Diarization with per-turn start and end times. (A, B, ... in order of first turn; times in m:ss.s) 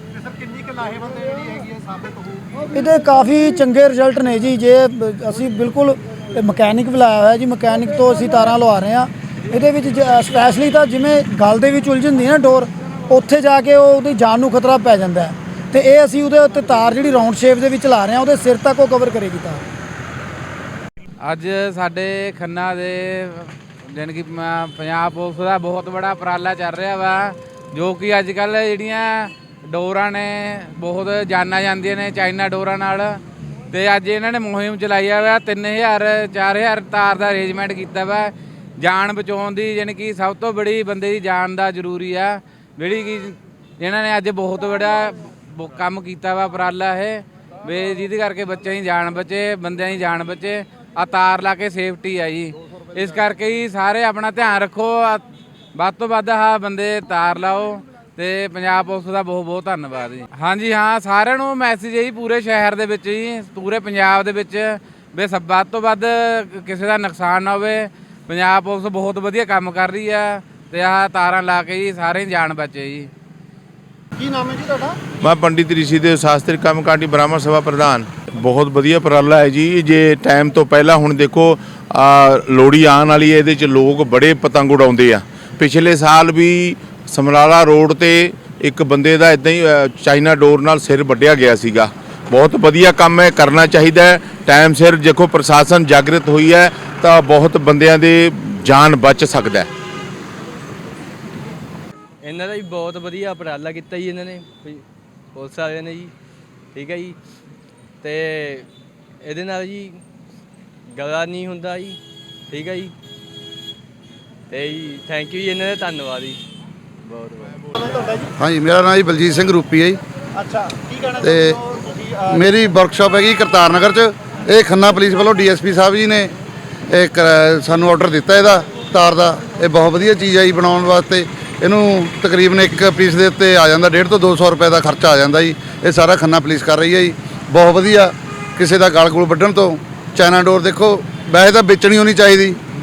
0:00.2-0:02.6 A
0:02.7-0:19.6 B
0:21.2-0:33.2 C
0:33.7-0:55.2 C
0:55.7-1:13.1 C
1:14.2-1:15.0 A
1:15.2-1:39.7 D
1:42.2-1:46.1 E
1:46.7-1:47.2 E
1:48.0-1:48.7 E
1:49.2-1:50.0 E
1:50.9-1:52.9 E
1:54.5-1:56.4 E
1:57.2-1:57.5 E
1:58.4-2:00.0 F
2:00.4-2:01.2 A
2:01.2-2:01.6 F
2:02.2-2:06.3 F
2:06.9-2:22.6 F